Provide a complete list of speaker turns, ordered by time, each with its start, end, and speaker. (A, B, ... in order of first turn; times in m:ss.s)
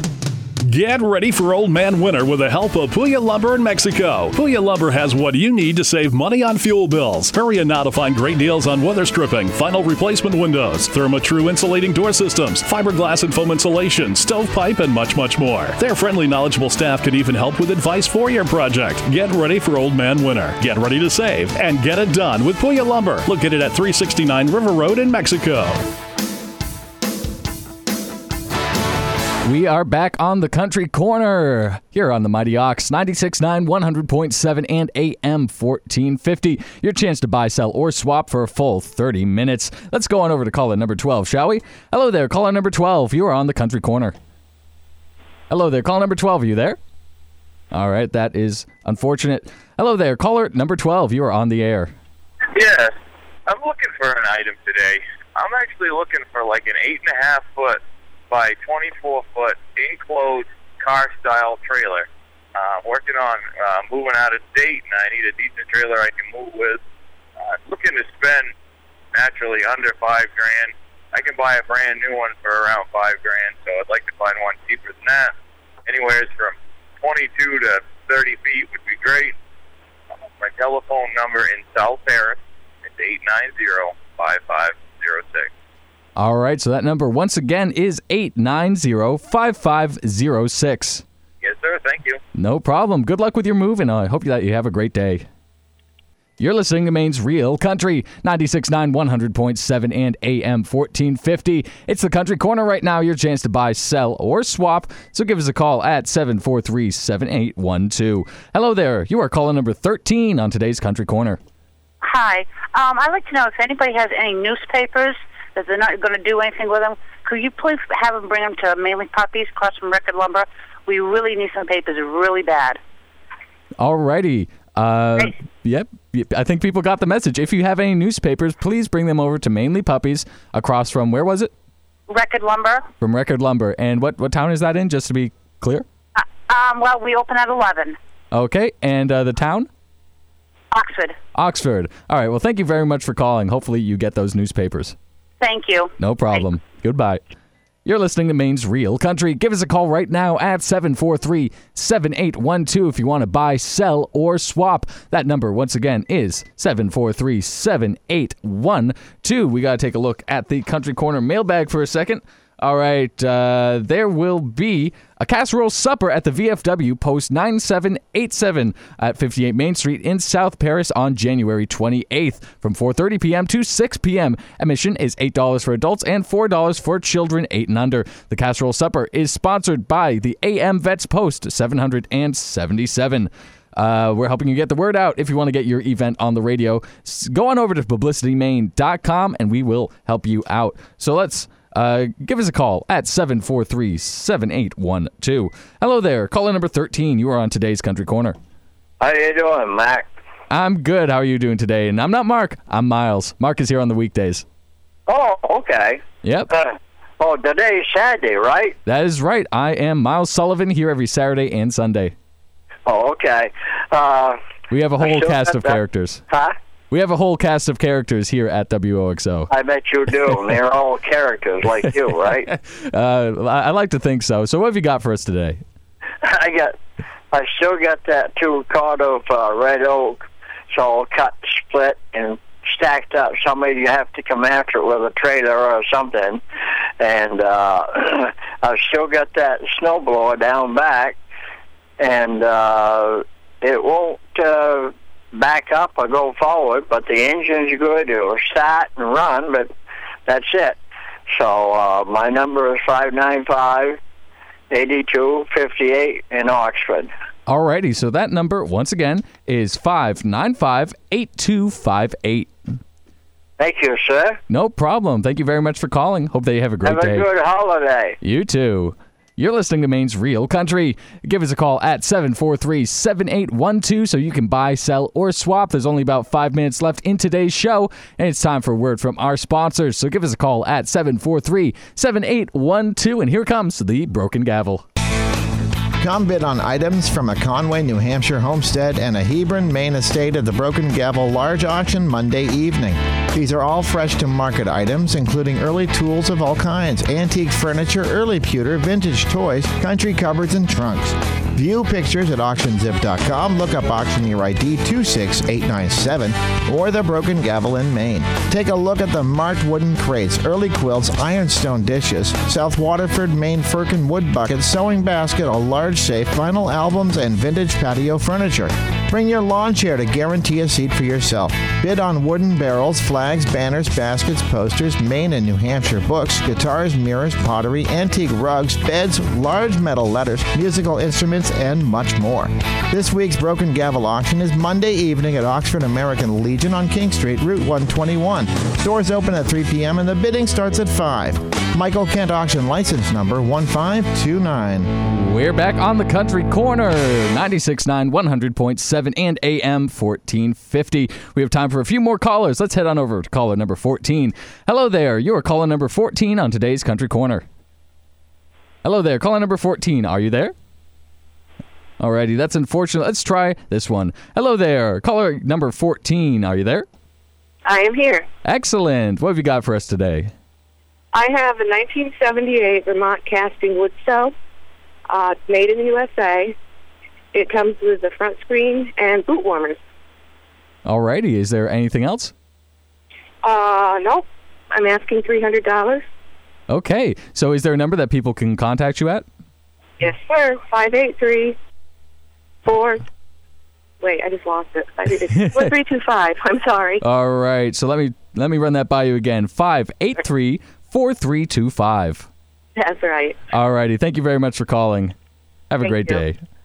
0:00.7-0:25.8 A
0:29.4-0:44.1 B
0:45.5-0:46.8 B
0:47.7-0:51.9 B
0:52.5-0:52.9 C
0:53.5-1:06.8 C
1:07.4-1:08.5 C
1:09.1-1:15.3 C
1:15.9-1:19.3 C
1:20.4-1:25.5 C
1:26.2-1:31.0 B
1:31.4-1:32.2 C
1:32.3-1:35.3 B
1:36.4-1:51.4 B
1:52.0-2:02.8 D
2:03.8-2:11.5 B
2:12.1-2:12.8 D
2:13.0-2:15.8 B
2:16.2-2:18.0 D
2:18.3-2:19.7 B
2:20.7-2:21.2 D
2:21.3-2:24.9 B
2:25.4-2:25.9 D
2:26.0-2:27.2 B
2:27.8-3:18.4 B
3:19.0-3:20.1 E
3:20.5-3:24.4 B
3:25.1-3:28.8 E
3:26.2-3:26.5 B
3:28.8-3:32.1 B
3:32.9-3:34.4 E
3:34.7-3:36.2 B
3:35.0-3:35.8 E
3:36.3-3:36.5 E
3:36.9-3:39.5 B
3:39.5-3:42.5 E
3:42.5-3:45.6 B
3:46.2-3:46.7 E
3:47.3-3:56.4 E
3:57.0-4:01.2 E
4:02.0-4:09.7 E
4:10.3-4:10.8 E
4:11.3-4:14.0 E
4:14.7-4:17.1 E
4:17.5-4:22.5 B
4:23.6-4:24.4 E
4:24.5-4:27.3 B
4:26.8-4:28.2 E
4:28.2-4:44.8 B
4:46.0-5:44.9 F
5:45.0-5:57.4 B
5:58.8-6:00.5 B
6:02.0-6:06.8 B
6:07.6-6:08.2 G
6:08.4-6:10.3 B
6:11.1-6:14.3 G
6:15.1-6:16.5 G
6:17.3-6:19.8 G
6:20.8-6:22.3 B
6:23.4-6:26.0 G
6:26.7-6:29.2 B
6:30.0-6:31.6 G
6:32.6-6:33.0 G
6:34.0-6:37.0 G
6:35.2-6:35.8 B
6:37.0-6:42.3 B
6:42.8-6:43.4 G
6:43.5-6:45.1 B
6:45.7-6:46.4 B
6:45.8-6:46.2 G